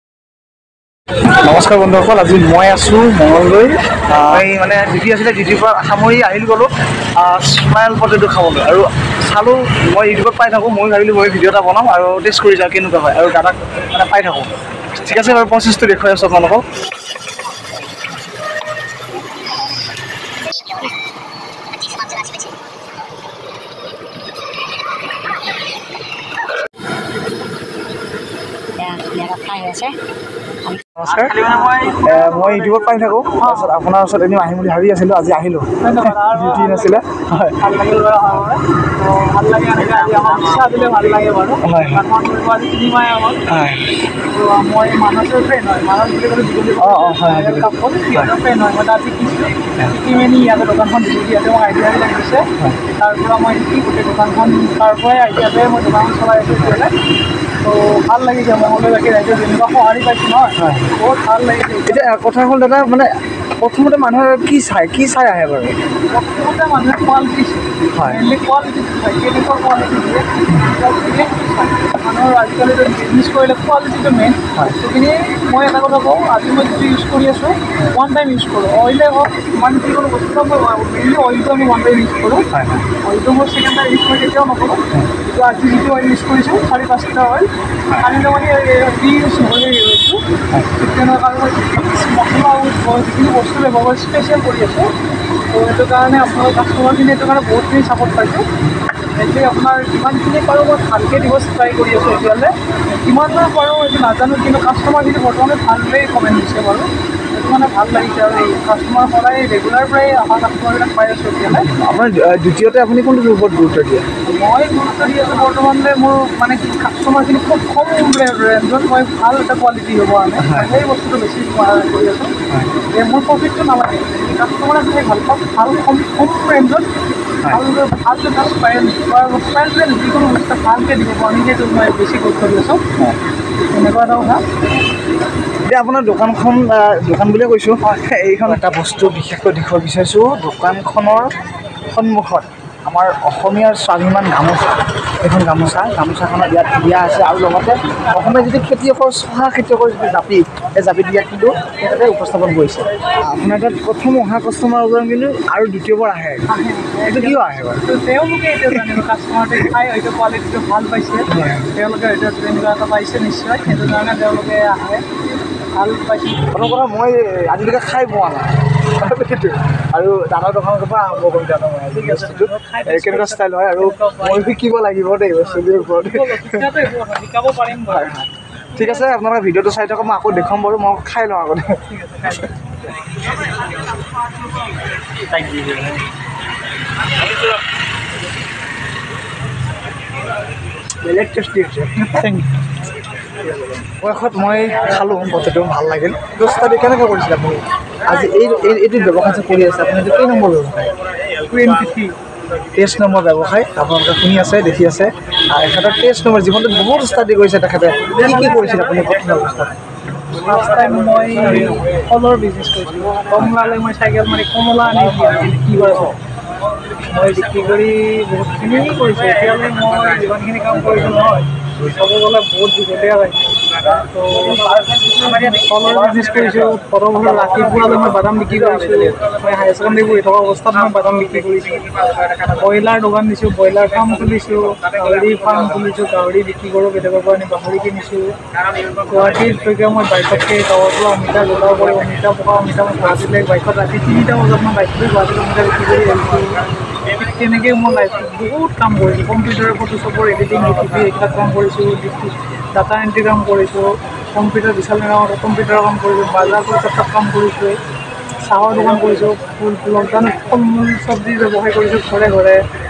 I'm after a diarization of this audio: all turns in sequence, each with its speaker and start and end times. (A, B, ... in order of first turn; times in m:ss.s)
0:01.3-0:16.6 A
0:20.6-0:21.0 B
0:21.7-0:22.5 B
0:28.8-0:30.0 B
0:31.0-0:37.6 A
0:33.4-0:33.7 C
0:35.8-0:37.0 C
0:37.6-0:43.4 C
0:41.6-0:42.0 A
0:43.5-0:44.0 A
0:44.2-0:57.0 C
0:46.8-0:48.3 A
0:57.6-1:02.2 C
1:00.6-1:00.9 A
1:01.9-1:05.8 A
1:06.1-1:30.2 C
1:07.9-1:08.2 A
1:10.5-1:10.8 A
1:22.5-1:22.9 A
1:30.5-1:31.0 A
1:30.8-1:35.0 C
1:35.5-1:38.5 C
1:39.1-1:51.7 C
1:51.5-1:54.1 A
1:54.2-2:02.4 C
2:00.4-2:00.8 A
2:02.9-2:06.9 C
2:07.5-2:12.8 C
2:13.7-2:14.4 C
2:15.6-2:21.3 A
2:21.8-2:36.5 A
2:36.5-2:45.2 C
2:37.0-2:37.9 A
2:41.3-2:41.7 A
2:43.7-2:44.0 A
2:45.7-2:46.6 C
2:46.5-2:56.7 A
2:51.9-2:54.5 C
2:55.4-2:58.2 C
2:57.9-3:02.3 A
2:58.8-2:59.1 C
3:01.9-3:02.6 C
3:05.3-3:06.0 A
3:11.0-3:12.4 A
3:12.2-3:12.4 C
3:14.0-3:21.0 A
3:21.5-3:22.2 C
3:22.8-3:29.8 A
3:28.1-3:29.0 C
3:30.4-3:36.2 C
3:37.0-3:58.3 C
3:59.0-4:17.8 C
4:18.4-4:22.6 C